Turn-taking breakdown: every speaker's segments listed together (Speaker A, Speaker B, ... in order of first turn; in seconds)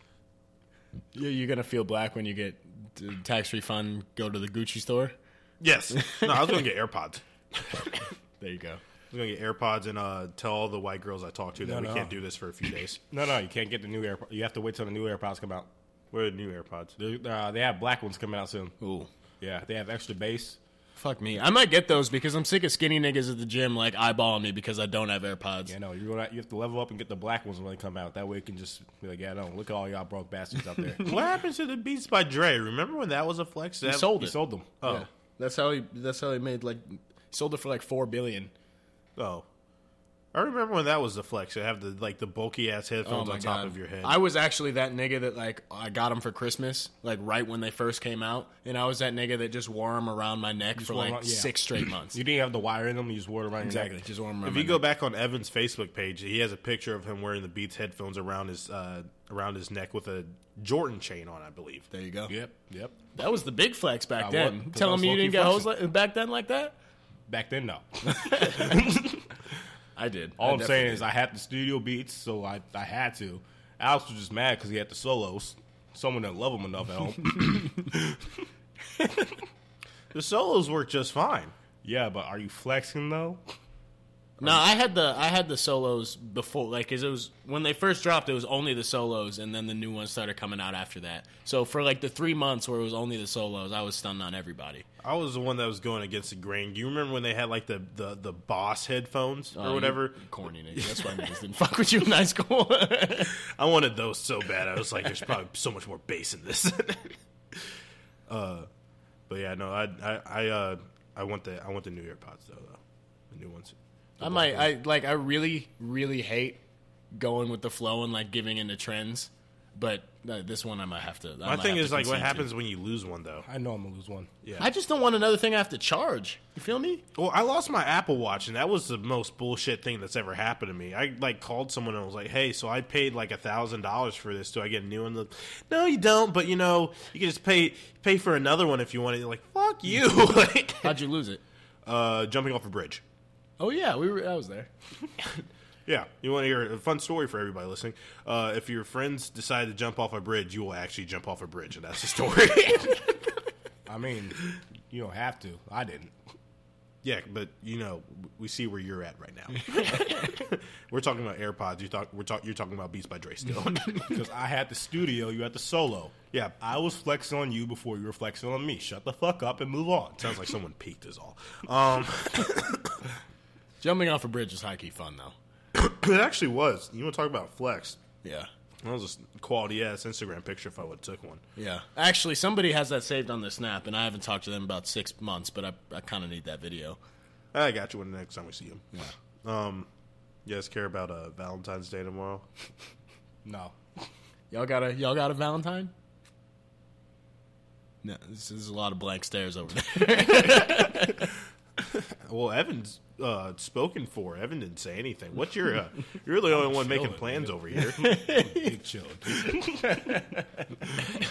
Speaker A: 1.1-5.1, 6.0-6.4, 8.4-8.8, 18.8-19.1, 20.9-25.7, 30.9-31.1, 33.8-38.5, 43.0-52.2, 53.6-54.8, 61.9-62.3, 63.1-66.7, 68.2-68.9, 70.0-71.1, 84.4-94.8, 99.5-103.4, 114.2-116.6, 117.1-122.5, 124.6-127.0, 140.8-141.4, 143.6-144.7, 159.7-160.3, 173.8-175.3, 178.2-178.5, 181.6-187.0, 194.5-195.9, 198.0-201.3, 207.9-208.7
Speaker B: 5.6-7.9, 9.1-13.0, 16.1-16.9, 31.0-34.2, 34.8-35.1, 39.1-39.5, 40.3-44.2, 54.4-61.9, 80.1-81.5, 95.0-100.2, 100.8-101.2, 103.3-107.7, 108.3-108.7, 109.3-112.8, 113.3-113.7, 121.4-123.5, 127.1-141.0, 141.8-143.0, 145.2-153.1, 157.0-164.2, 166.3-166.6, 170.2-173.0, 175.7-178.0, 178.8-181.4, 187.5-188.8, 189.4-189.9, 190.4-192.4, 201.9-208.0
Speaker C: 11.6-12.1, 13.1-15.7, 17.0-18.7, 19.4-20.6, 25.6-31.1, 34.1-34.9, 50.8-54.0, 62.3-63.0, 64.2-65.7, 67.3-69.3, 70.4-78.2, 81.8-83.4, 114.2-114.7, 123.4-124.3, 153.9-156.1, 164.0-170.3, 193.4-193.7, 206.5-211.1